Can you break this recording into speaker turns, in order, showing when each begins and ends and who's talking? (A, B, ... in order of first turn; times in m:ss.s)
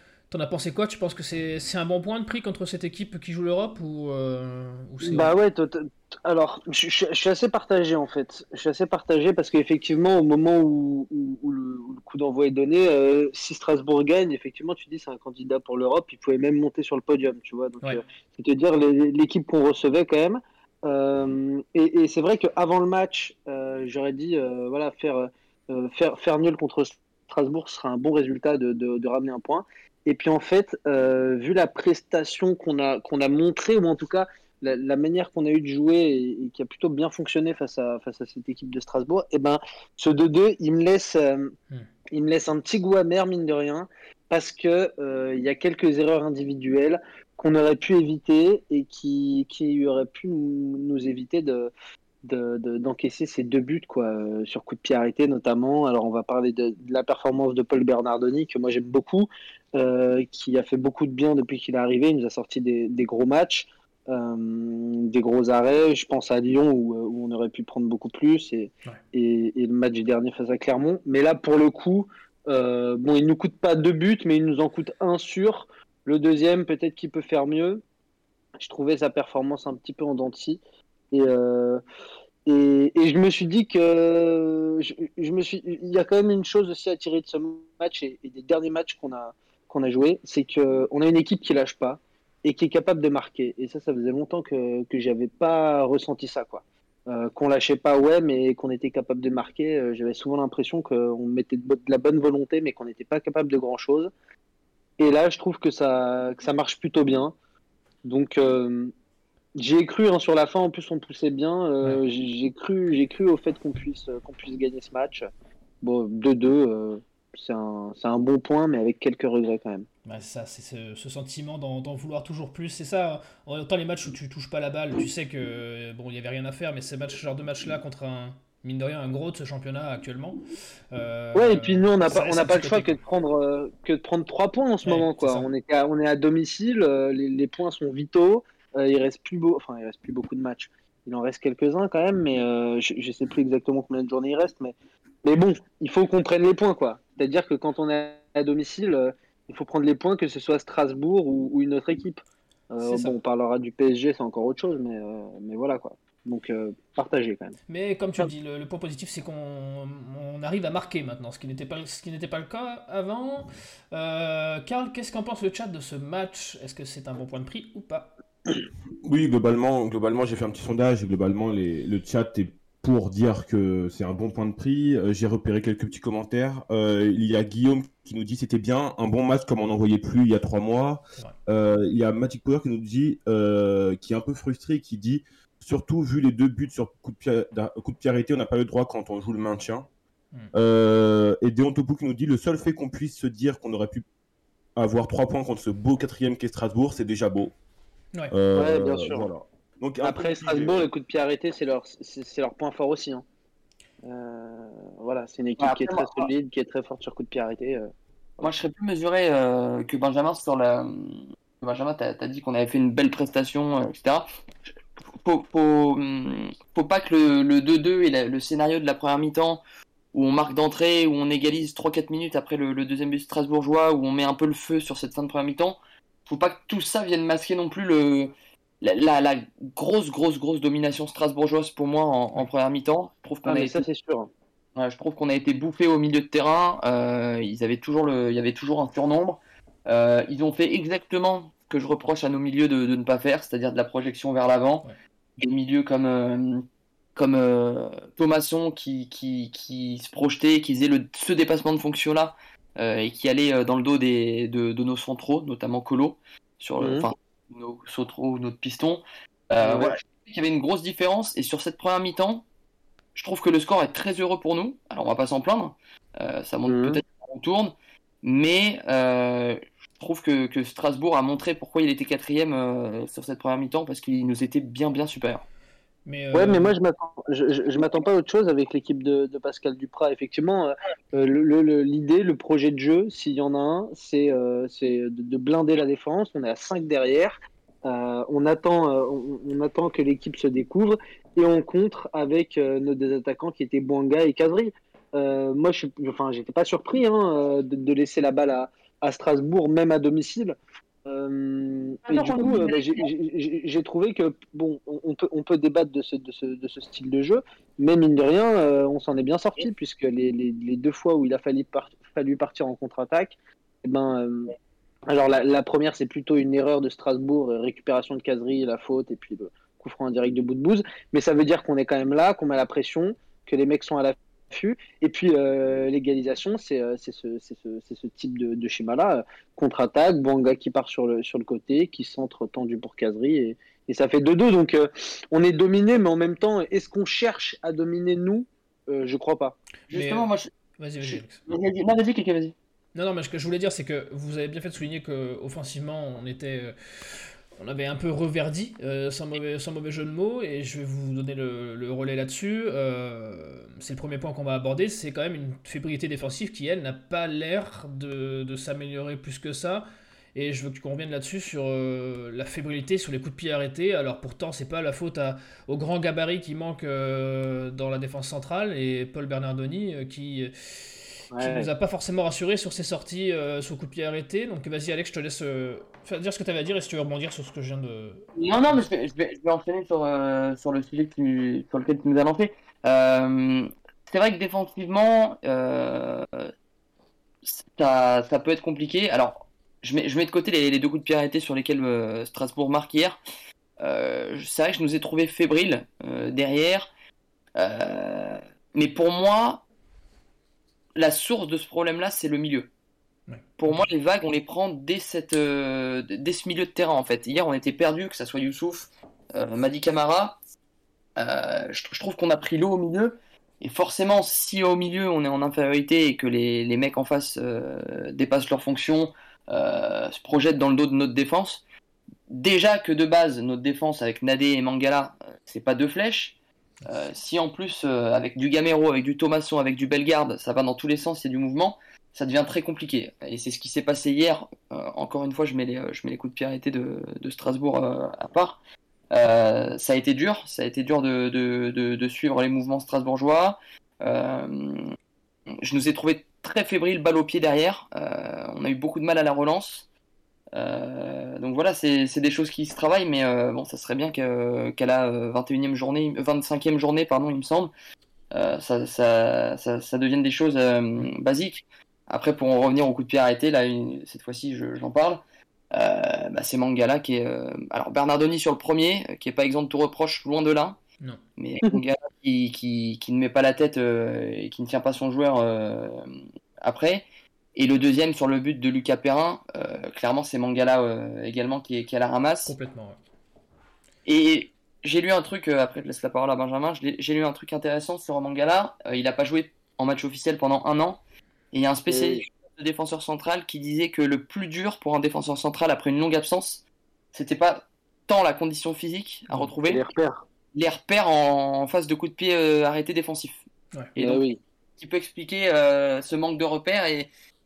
0:00.3-0:05.3 A
0:05.0-0:41.5 B
0:42.1-0:51.7 B
0:52.2-1:17.8 B
1:18.6-1:21.8 B
1:22.5-1:44.1 B
1:45.0-1:47.4 B
1:48.0-1:48.9 B
1:49.6-1:55.3 B
1:55.8-1:59.9 B
2:00.1-2:10.4 A
2:10.9-2:13.0 A
2:11.4-2:24.7 B
2:14.8-2:15.5 A
2:25.2-2:32.2 B
2:32.7-2:37.6 B
2:32.8-2:33.2 A
2:37.7-2:48.1 A
2:49.0-3:09.9 C
3:10.5-3:14.0 C
3:14.8-3:17.5 C
3:18.3-3:20.9 C
3:18.5-3:19.3 B
3:20.0-3:23.2 B
3:24.0-3:27.9 B
3:25.6-3:26.3 D
3:28.4-3:34.3 D
3:35.2-3:39.6 D
3:40.1-3:53.8 D
3:53.5-3:54.3 B
3:54.8-4:04.8 D
4:05.4-4:22.4 D
4:16.8-4:17.1 B
4:19.6-4:19.9 B
4:23.2-4:35.4 D
4:26.7-4:27.0 B
4:36.1-4:36.7 A
4:36.3-5:14.5 B
5:02.1-5:03.1 D
5:15.1-5:39.6 B
5:39.9-5:40.3 A
5:39.9-5:40.5 D
5:40.8-5:41.4 A
5:41.0-5:42.6 D
5:43.0-6:18.8 A
6:11.3-6:11.7 B
6:18.4-6:26.5 D
6:27.4-6:33.2 D
6:33.8-6:36.9 D
6:37.6-6:39.6 D
6:41.0-6:42.7 D
6:43.3-6:43.9 A
6:43.6-6:50.4 D
6:51.2-7:01.6 D
7:02.3-7:06.4 D
7:06.9-7:18.6 D
7:19.1-7:24.9 D
7:25.6-7:29.9 D
7:30.6-7:37.7 D
7:38.3-7:50.8 D
7:51.4-7:56.1 D
7:56.6-7:57.0 D
7:57.6-8:02.5 D
8:02.5-8:03.0 A
8:04.1-8:11.0 D
8:11.5-8:19.8 D
8:11.9-8:12.2 B
8:19.7-8:20.2 B
8:20.5-8:23.4 D
8:24.0-8:24.2 D
8:24.0-8:24.4 B
8:24.8-8:27.1 D